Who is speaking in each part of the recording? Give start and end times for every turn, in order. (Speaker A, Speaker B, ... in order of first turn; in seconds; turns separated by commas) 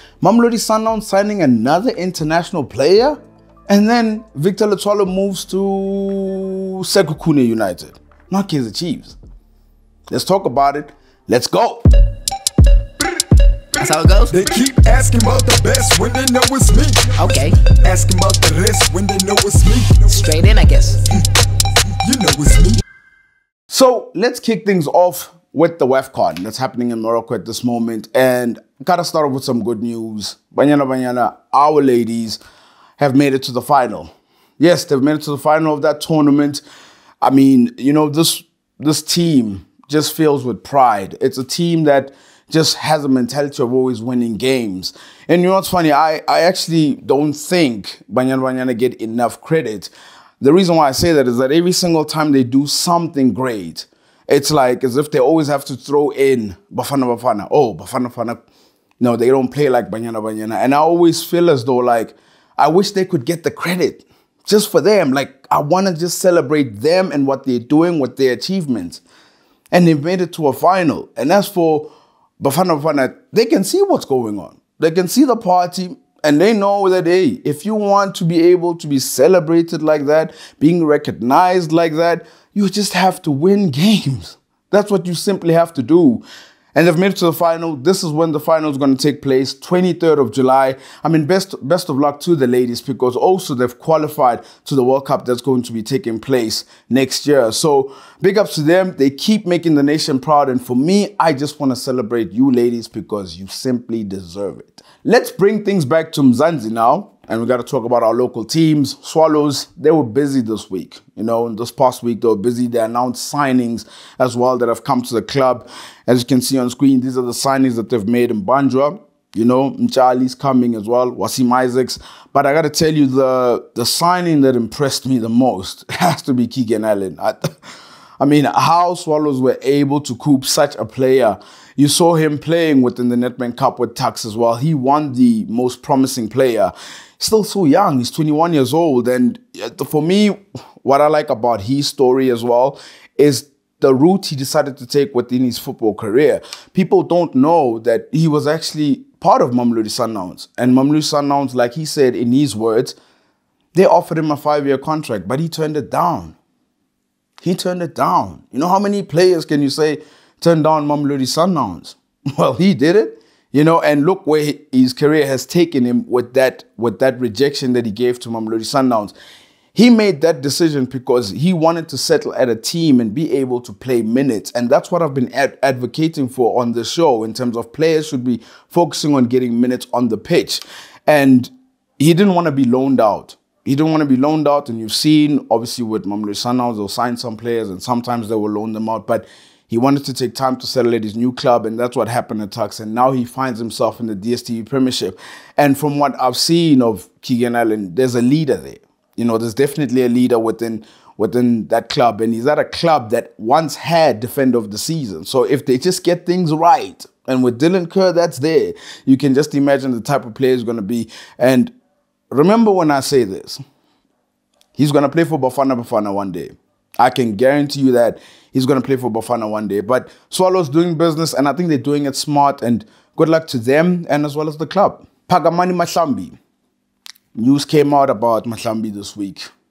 Speaker A: 0.2-3.2, Speaker A: 3.7-9.2, Speaker A: 10.1-11.8, Speaker B: 13.7-14.4, Speaker C: 14.3-17.1, Speaker A: 14.6-16.8, Speaker B: 17.1-17.8, Speaker C: 17.8-20.1, Speaker B: 20.1-21.1, Speaker C: 22.1-22.8, Speaker A: 23.7-32.4, Speaker A: 33.0-36.6, Speaker A: 37.2-58.4, Speaker A: 59.0-69.0, Speaker A: 69.7-86.2, Speaker A: 86.8-127.4, Speaker A: 128.2-153.0, Speaker A: 153.7-156.4, Speaker A: 157.4-169.2, Speaker A: 169.7-211.7, Speaker A: 212.3-213.6, Speaker A: 214.8-226.4, Speaker A: 227.3-229.5